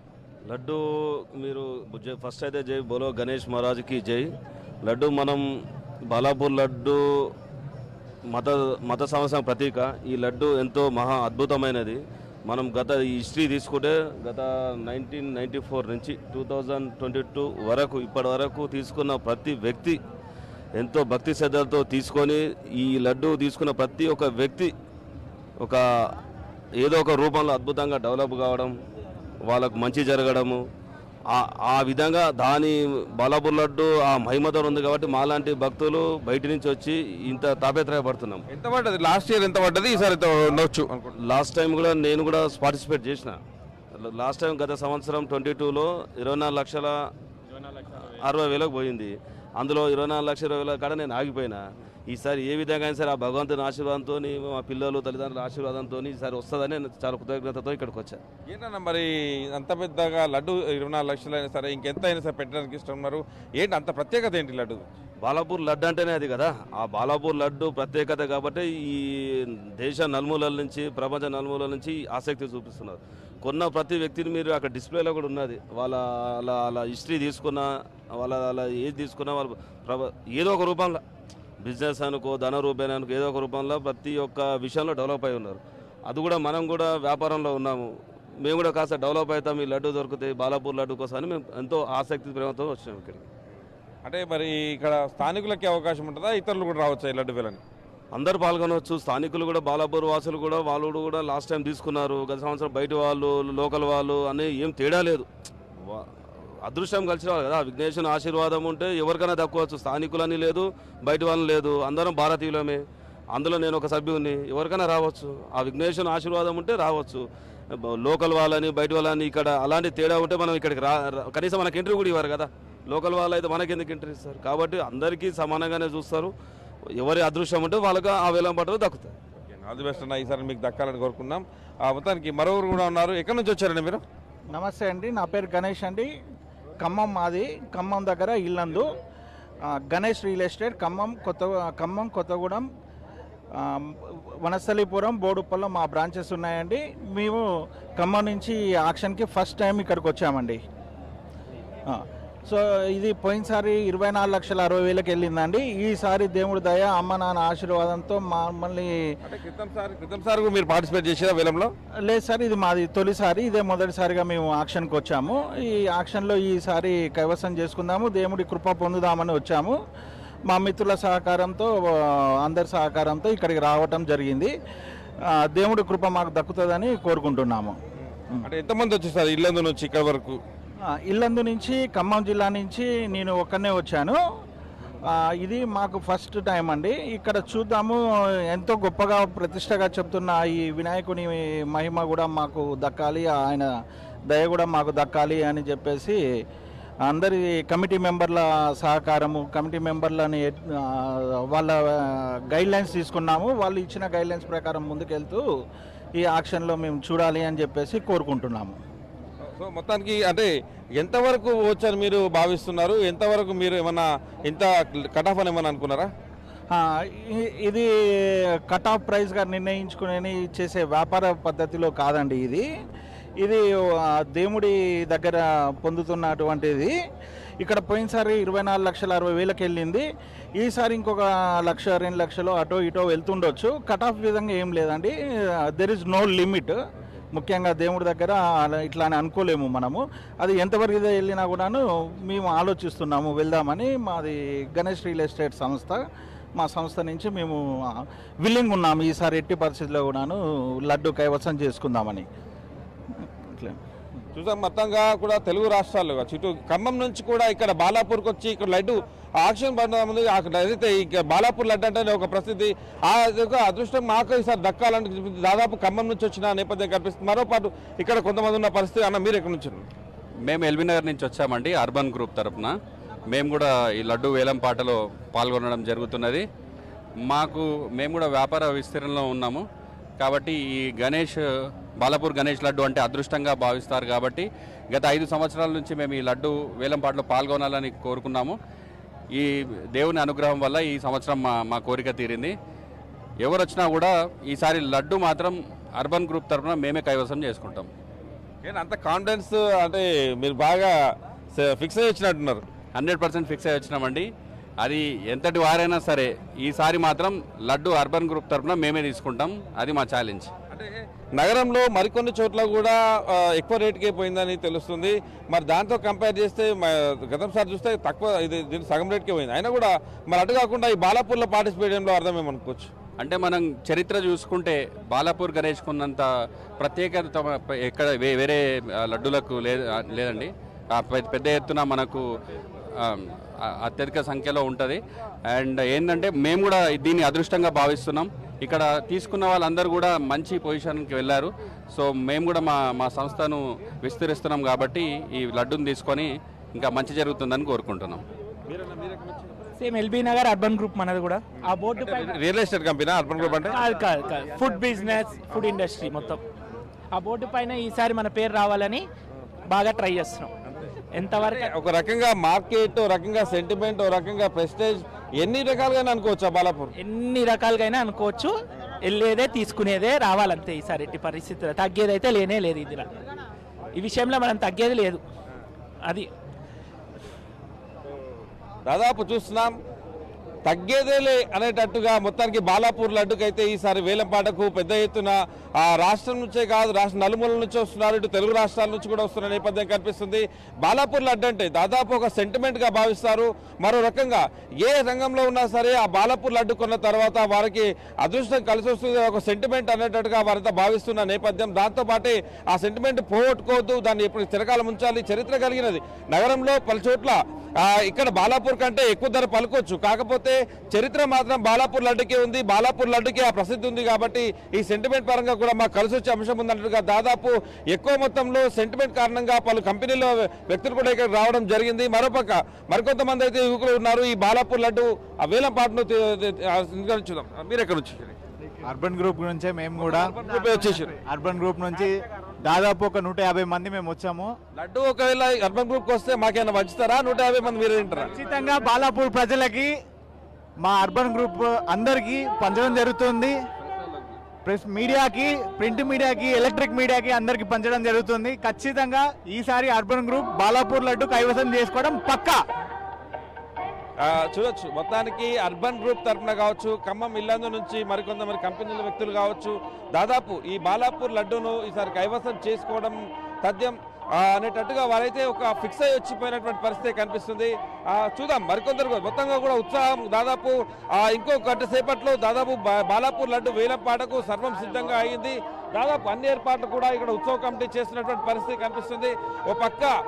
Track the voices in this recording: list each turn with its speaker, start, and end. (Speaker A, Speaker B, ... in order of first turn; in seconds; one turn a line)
Speaker A: 0.5-0.8
Speaker A: 1.4-4.3
Speaker A: 4.8-5.4
Speaker A: 6.1-7.0
Speaker A: 8.3-20.0
Speaker A: 20.8-24.7
Speaker A: 26.8-28.7
Speaker A: 29.5-30.6
Speaker A: 31.3-38.5
Speaker B: 38.5-41.1
Speaker A: 41.2-43.4
Speaker A: 44.0-46.9
Speaker A: 47.8-58.2
Speaker B: 58.5-64.9
Speaker A: 65.2-69.0
Speaker A: 69.8-81.0
Speaker A: 81.6-87.8
Speaker A: 88.4-93.3
Speaker B: 94.0-97.6
Speaker A: 98.1-105.3
Speaker A: 106.6-112.8
Speaker A: 113.3-117.2
Speaker A: 118.0-126.3
Speaker A: 127.0-129.1
Speaker B: 129.5-134.0
Speaker C: 134.5-136.1
Speaker C: 136.8-138.9
Speaker C: 139.9-142.6
Speaker C: 143.6-147.4
Speaker C: 148.0-150.6
Speaker C: 151.9-158.9
Speaker B: 159.2-161.7
Speaker C: 162.1-169.8
Speaker C: 170.5-174.5
Speaker C: 175.4-177.8
Speaker B: 178.4-180.4
Speaker C: 181.1-184.2
Speaker C: 185.1-188.0
Speaker C: 188.5-193.7
Speaker C: 194.3-196.2
Speaker C: 197.1-201.8
Speaker C: 202.5-205.4
Speaker C: 206.2-208.8
Speaker B: 209.5-216.1
Speaker C: 216.7-217.9
Speaker C: 218.7-222.6
Speaker C: 224.2-226.9
Speaker C: 227.6-230.0
Speaker C: 230.6-235.1
Speaker C: 235.7-236.8
Speaker C: 237.3-246.0
Speaker C: 246.6-247.6
Speaker C: 248.4-252.2
Speaker B: 254.3-269.8
Speaker D: 270.5-272.7
Speaker D: 273.3-276.4
Speaker D: 277.3-279.6
Speaker D: 280.2-281.4
Speaker D: 282.0-288.6
Speaker D: 289.3-292.5
Speaker D: 293.4-297.9
Speaker B: 298.6-300.9
Speaker B: 301.5-302.6
Speaker D: 302.9-304.3
Speaker D: 304.8-310.5
Speaker B: 310.7-322.9
Speaker D: 323.2-326.2
Speaker D: 326.8-332.2
Speaker D: 333.0-335.0
Speaker D: 335.5-348.2
Speaker B: 348.7-349.5
Speaker E: 349.8-352.3
Speaker B: 352.0-353.8
Speaker E: 353.7-356.4
Speaker E: 357.1-359.1
Speaker E: 359.7-360.5
Speaker E: 361.1-361.7
Speaker B: 361.4-366.9
Speaker E: 367.0-373.1
Speaker E: 373.9-375.2
Speaker B: 378.9-379.7
Speaker B: 380.6-428.3
Speaker F: 428.9-430.3
Speaker B: 430.0-431.1
Speaker F: 431.2-432.1
Speaker F: 432.6-434.5
Speaker B: 434.8-438.3
Speaker F: 438.3-439.9
Speaker F: 440.8-443.6
Speaker F: 444.6-452.6
Speaker B: 454.2-480.1